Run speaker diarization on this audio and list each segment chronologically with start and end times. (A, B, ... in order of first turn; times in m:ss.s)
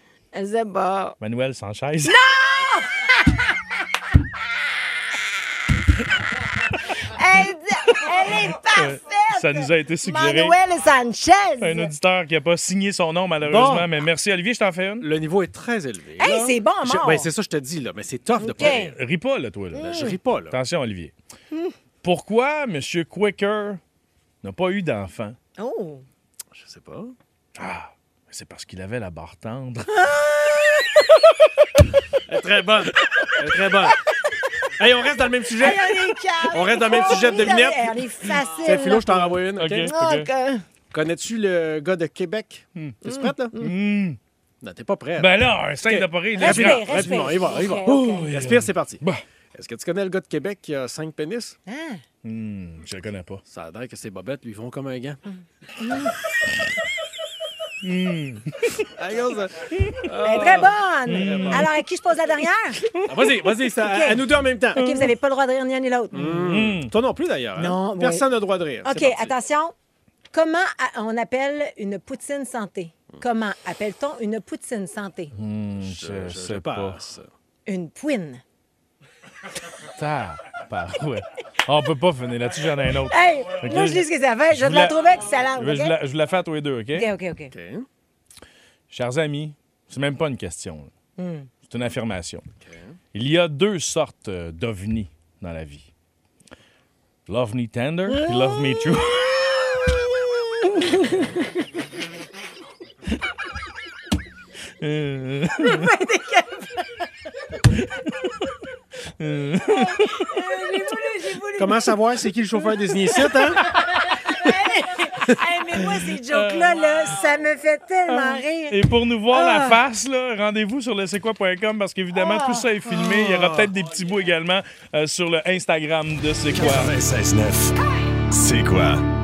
0:00.3-0:01.2 A
0:01.2-0:02.2 B
0:02.0-0:03.5 A
0:06.9-0:11.9 A
0:08.7-0:10.6 B
0:11.6-0:15.1 B
0:13.4-0:13.9 C
0:15.0-0:19.0 C
0:16.2-0:17.3 A
0:18.4-0:18.9 A
0:18.6-0:20.0 B
0:19.7-0:20.2 A
0:19.8-0:20.6 C
0:20.5-0:21.1 B
0:22.0-0:23.8 B
0:24.4-0:25.4 B
0:25.6-0:26.0 A
0:26.5-0:27.2 C
0:27.6-0:30.0 B
0:29.9-0:31.0 A
0:32.3-0:34.0 C
0:34.8-0:39.9 C
0:35.6-0:40.6 A
0:39.6-0:40.3 B
0:40.9-0:43.6 C
0:43.0-0:43.7 A
0:43.6-0:44.2 B
0:44.6-0:49.0 C
0:45.2-0:47.3 B
0:46.4-0:48.3 A
0:47.8-0:49.2 B
0:49.5-0:51.6 C
0:51.7-0:52.0 A
0:52.2-0:53.4 B
0:53.5-0:55.2 C
0:55.8-0:56.1 A
0:57.8-0:58.8 B
0:58.9-1:01.7 C
1:00.2-1:03.0 A
1:01.1-1:01.7 B
1:03.0-1:04.9 C
1:03.8-1:06.4 A
1:04.8-1:05.1 B
1:06.1-1:09.3 C
1:06.3-1:06.9 B
1:07.6-1:08.3 A
1:08.8-1:09.8 A
1:10.3-1:15.3 A
1:15.4-1:17.0 B
1:15.8-1:17.3 C
1:17.7-1:18.4 A
1:19.8-1:27.1 B
1:23.1-1:26.0 A
1:26.9-1:27.5 A
1:27.5-1:27.9 C
1:28.9-1:30.9 B
1:31.2-1:31.5 A
1:31.7-1:32.4 B
1:32.6-1:33.0 C
1:33.1-1:35.9 B
1:37.3-1:40.0 B
1:38.1-1:38.8 A
1:40.7-1:41.2 A
1:44.8-1:45.9 B
1:45.6-1:47.1 A
1:47.7-1:48.3 B
1:49.2-1:50.3 B
1:49.6-1:51.9 A
1:51.6-1:53.6 C
1:53.1-1:58.8 A
1:56.3-1:57.2 B
1:58.1-2:06.9 B
1:59.3-1:59.8 A
2:02.1-2:02.7 A
2:03.0-2:03.7 C
2:06.5-2:07.8 D
2:08.3-2:09.0 D